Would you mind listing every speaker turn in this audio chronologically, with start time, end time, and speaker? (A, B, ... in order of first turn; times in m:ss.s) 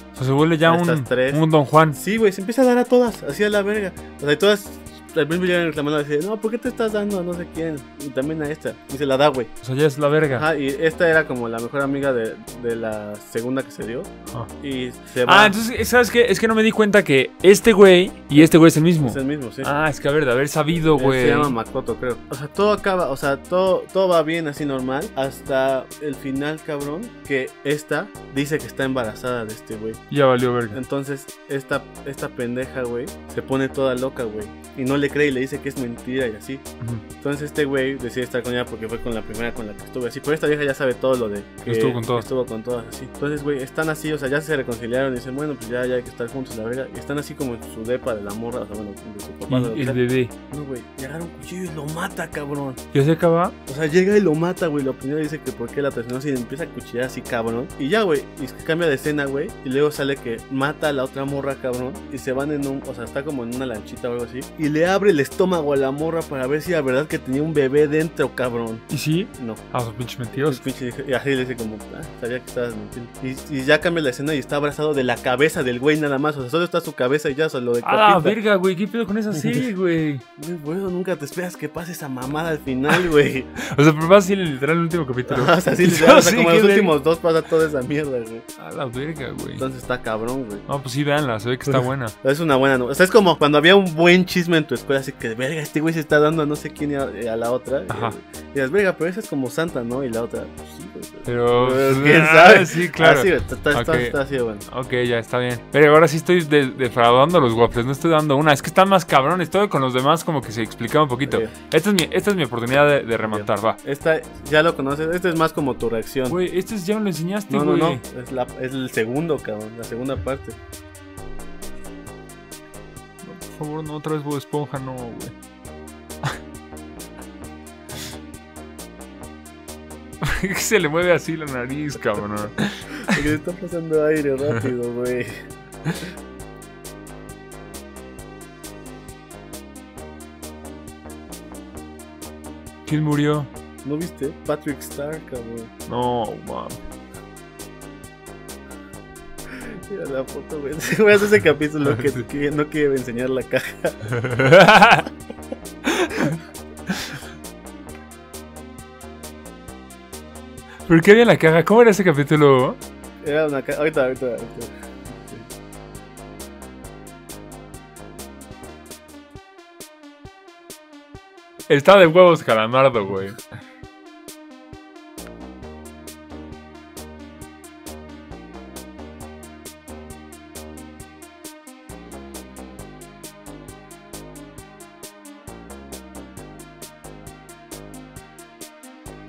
0:00.2-0:02.0 A
0:00.6-0:01.4 B
0:01.9-0:09.5 B
0:09.6-0:10.4 A
0:10.3-0:15.6 B
0:15.2-0:21.5 A
0:18.4-0:19.7 B
0:20.9-0:30.0 B
0:30.1-0:30.8 A
0:30.7-0:36.6 B
0:37.2-0:52.8 B
0:41.7-0:42.3 A
0:49.5-0:50.3 A
0:52.9-0:53.5 A
0:53.7-1:08.8 B
1:08.9-1:10.6 A
1:09.4-1:09.6 B
1:10.3-1:18.4 B
1:17.8-1:20.2 A
1:20.4-1:23.5 B
1:23.6-1:26.9 A
1:25.3-1:28.4 B
1:28.6-1:29.6 A
1:29.6-1:30.6 B
1:30.7-1:32.1 A
1:31.7-1:44.6 B
1:37.9-1:38.2 A
1:41.2-1:44.2 A
1:44.7-1:53.8 A
1:51.3-1:51.5 B
1:53.2-1:56.4 B
1:56.3-1:58.0 A
1:57.5-2:00.6 B
2:03.2-2:05.3 A
2:10.2-2:13.2 A
2:13.0-2:15.3 B
2:22.8-2:23.5 A
2:23.8-2:25.7 B
2:25.9-2:26.8 A
2:29.5-2:34.1 B
2:31.9-2:32.2 A
2:34.0-2:35.0 A
2:35.8-2:36.4 A
2:36.9-2:37.2 A
2:40.9-2:42.8 A
2:43.2-2:45.4 B
2:51.7-2:53.4 A